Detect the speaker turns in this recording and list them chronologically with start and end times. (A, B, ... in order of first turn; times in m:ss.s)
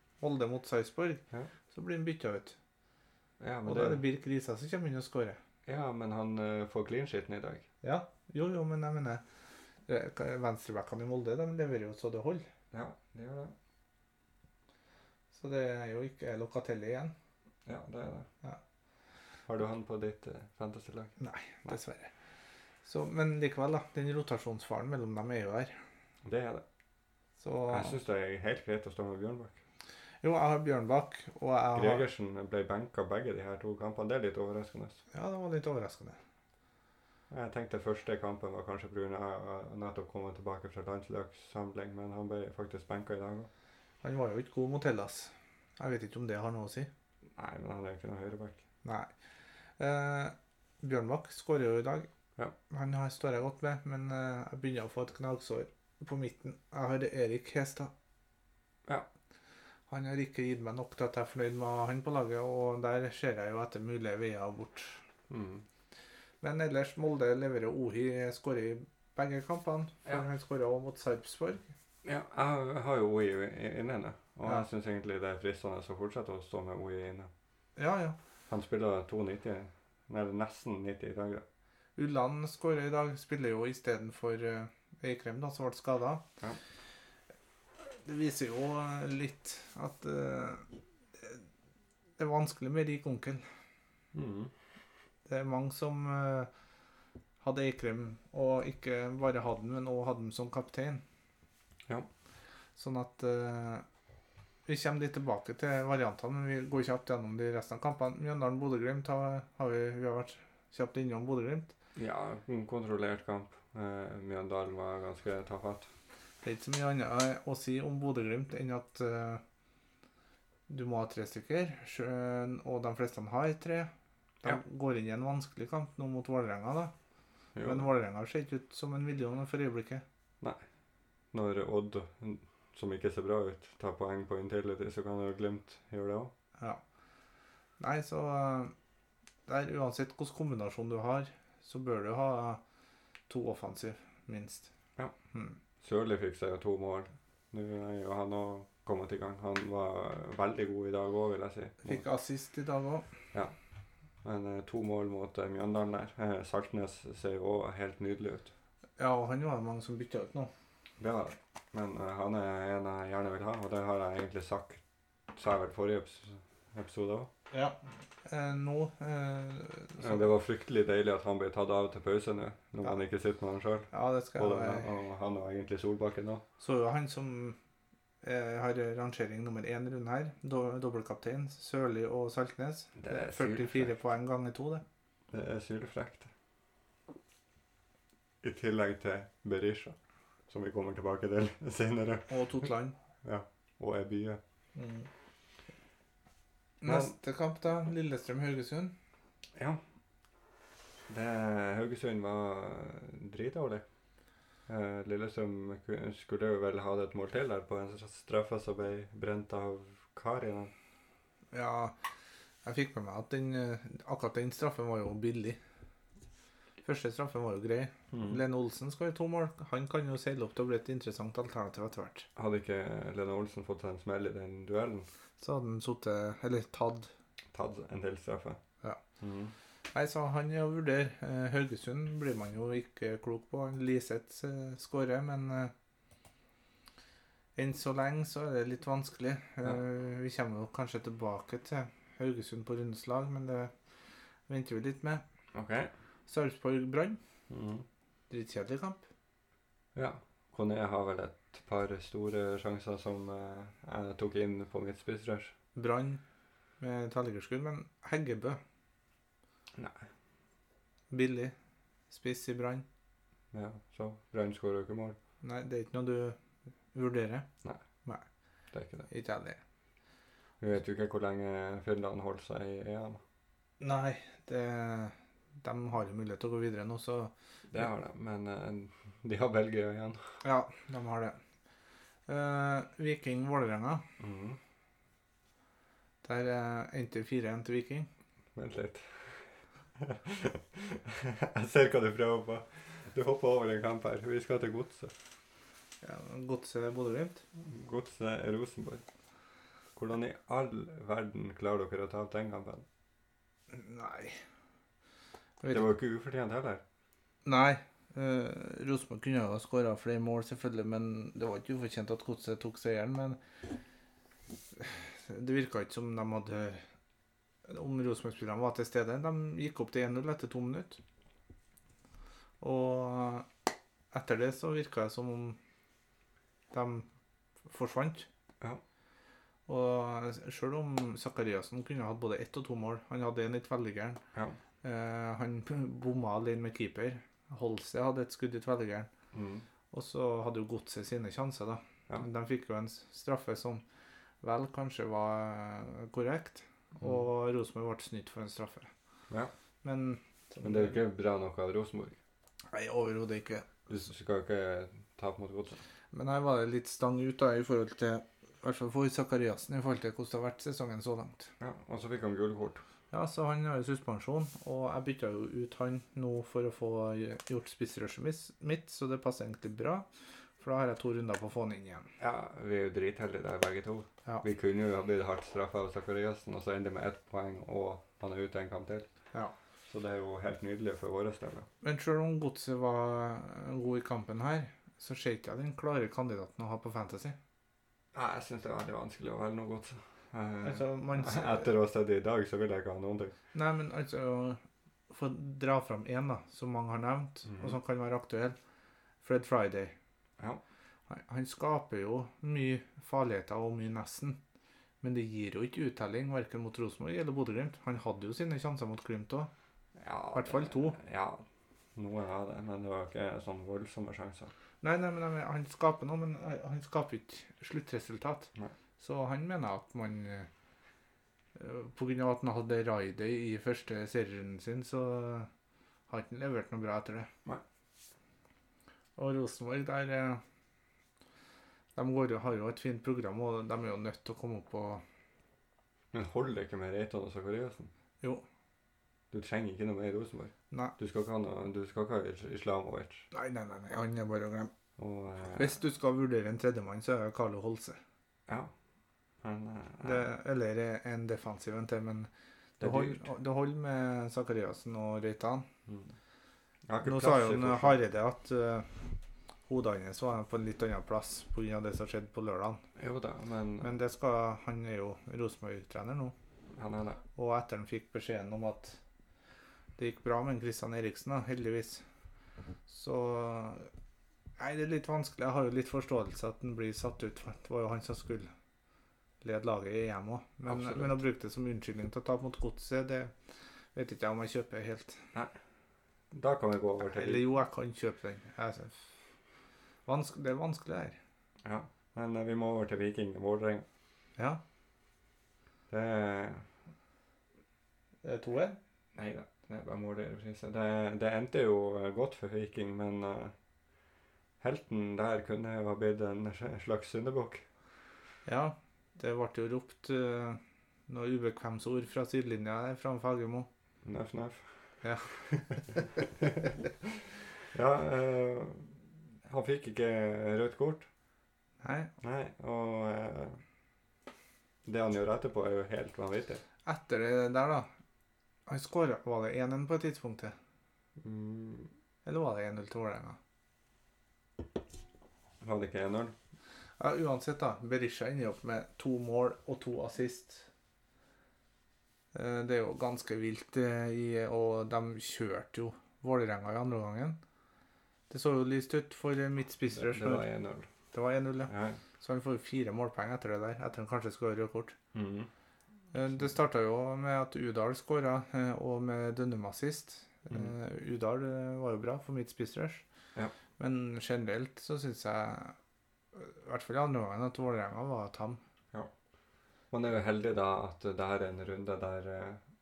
0:00.2-0:02.6 A
0:03.4-0:04.0 B
0:03.7-0:05.4 A
0:05.6-0:07.7 B
0:07.8-0:09.2 A
0:09.9-0:12.4 A
0:12.7-0:13.6 B
0:15.3-0:17.1 A
0:17.7-0:18.3 B
0:19.5-0:21.8 B
0:21.2-0:22.1 A
0:22.8-0:25.8 A
0:26.2-0:26.6 B
0:27.4-0:28.0 A
0:27.7-0:29.6 B
0:30.2-0:32.1 A
0:31.8-0:35.0 B
0:35.1-0:36.2 A
0:37.3-0:43.5 B
0:44.0-0:46.9 A
0:47.4-0:48.6 B
0:48.8-0:49.1 A
0:49.8-0:52.1 A
0:52.7-0:57.9 A
0:59.9-1:05.0 A
1:05.3-1:05.6 B
1:06.4-1:11.7 A
1:12.0-1:17.3 B
1:17.8-1:18.2 A
1:18.5-1:21.4 B
1:22.0-1:26.2 A
1:27.8-1:30.7 A
1:31.2-1:31.4 A
1:32.2-1:33.4 A
1:34.1-1:34.5 B
1:35.3-1:36.5 A
1:37.4-1:41.0 A
1:42.8-1:43.8 A
1:44.7-1:51.7 A
1:52.0-1:55.9 B
1:56.4-1:59.4 A
2:00.7-2:03.9 A
2:04.4-2:06.9 A
2:07.6-2:07.9 B
2:07.6-2:10.0 A
2:11.3-2:16.3 B
2:17.8-2:18.7 A
2:19.5-2:22.6 A
2:23.3-2:24.7 A
2:25.3-2:25.6 A
2:25.8-2:32.0 B
2:31.8-2:33.1 A
2:34.2-2:38.5 B
2:39.0-2:40.5 A
2:41.0-2:44.8 B
2:45.3-2:47.3 B
2:47.5-2:50.3 A
2:50.0-2:56.4 B
2:53.9-2:54.9 A
2:56.6-2:57.6 A
2:58.2-3:04.8 A
3:03.0-3:03.9 B
3:05.3-3:06.3 B
3:08.4-3:10.0 B
3:10.5-3:12.7 B
3:12.3-3:13.0 A
3:13.2-3:14.4 B
3:14.8-3:15.1 A
3:16.8-3:19.0 A
3:16.8-3:17.1 B
3:19.6-3:19.8 B
3:21.1-3:23.8 B
3:24.7-3:30.7 B
3:31.5-3:32.0 A
3:32.6-3:35.6 A
3:36.8-3:42.3 A
3:38.1-3:38.4 B
3:42.4-3:45.1 B
3:45.4-3:47.1 A
3:47.5-3:48.6 B
3:49.2-3:49.6 B
3:49.9-3:55.7 A
3:57.6-4:03.7 A
4:04.5-4:05.2 A
4:05.5-4:05.9 B
4:06.3-4:07.2 A
4:07.5-4:07.8 B
4:08.3-4:09.1 A
4:10.0-4:15.5 B
4:15.8-4:16.2 A
4:16.8-4:18.6 A
4:19.7-4:20.1 B
4:21.1-4:21.6 A
4:22.1-4:22.8 A
4:23.5-4:25.2 B
4:25.4-4:26.4 A
4:26.9-4:27.5 A
4:28.7-4:29.1 B
4:29.1-4:29.6 A
4:30.6-4:33.2 B
4:33.8-4:37.3 A
4:37.7-4:40.4 B
4:40.4-4:41.4 A
4:42.3-4:44.0 A
4:44.2-4:44.6 B
4:46.2-4:48.1 A
4:48.5-4:55.1 B
4:56.0-4:57.4 A
4:57.6-4:59.0 B
5:00.0-5:02.8 B
5:03.7-5:04.4 A
5:05.6-5:05.9 A
5:05.7-5:06.8 B
5:07.4-5:13.4 A
5:14.8-5:16.8 A
5:17.7-5:21.0 A
5:22.6-5:23.5 A
5:24.1-5:25.6 A
5:26.7-5:27.1 A
5:27.7-5:28.3 A
5:29.7-5:34.2 A
5:34.8-5:39.1 A
5:39.3-5:39.7 B
5:39.9-5:43.8 A
5:44.4-5:48.9 A
5:49.8-5:51.0 A
5:50.6-5:52.2 B
5:52.7-5:53.7 A
5:53.9-5:55.8 B
5:56.1-6:01.5 A
6:01.6-6:02.8 B
6:03.1-6:10.1 A
6:10.6-6:12.1 A
6:12.2-6:19.1 B
6:19.9-6:21.7 B
6:21.8-6:27.4 A
6:28.1-6:33.3 B
6:30.6-6:31.7 A
6:33.5-6:38.6 A
6:37.5-6:37.8 B
6:39.2-6:40.0 A
6:41.1-6:44.4 A
6:45.0-6:49.5 A
6:50.0-6:51.4 B
6:50.3-6:51.0 A
6:52.0-6:54.5 B
6:54.8-7:00.5 A
7:01.6-7:05.5 A
7:06.1-7:07.3 A
7:09.2-7:10.4 A
7:12.0-7:15.0 A
7:16.1-7:17.9 B
7:19.3-7:23.3 B
7:23.3-7:24.7 A
7:25.0-7:25.7 B
7:25.5-7:28.0 A
7:29.4-7:30.3 B
7:30.0-7:35.7 A
7:32.8-7:33.3 B
7:36.9-7:38.0 B
7:37.0-7:39.0 A
7:39.7-7:42.8 A
7:43.0-7:43.9 B
7:43.8-7:46.4 A
7:46.7-7:47.2 B
7:47.4-7:49.0 A
7:50.0-7:52.0 A
7:52.9-7:53.9 A
7:54.6-7:58.5 A
7:59.4-8:03.3 A
8:00.7-8:01.2 B
8:04.0-8:05.3 A
8:06.3-8:07.4 B
8:07.0-8:09.1 A
8:10.1-8:11.2 A
8:11.6-8:13.9 B
8:15.9-8:16.7 B
8:18.2-8:18.8 A
8:19.2-8:23.5 B
8:24.6-8:27.6 B
8:28.5-8:33.7 A
8:34.0-8:41.1 B
8:35.0-8:36.1 A
8:41.8-8:42.1 A
8:42.2-8:43.6 B
8:44.8-8:46.6 B
8:46.8-8:47.9 A
8:48.7-8:50.6 A
8:51.2-8:51.9 B
8:52.2-8:53.4 A
8:55.6-8:56.4 B
8:57.0-9:00.7 A
9:02.3-9:07.4 A
9:08.3-9:10.5 A
9:09.9-9:10.9 B
9:11.1-9:15.0 A
9:11.7-9:12.0 B
9:15.1-9:15.5 B
9:16.1-9:23.0 A
9:23.8-9:25.8 A
9:26.3-9:28.6 A
9:29.9-9:32.6 B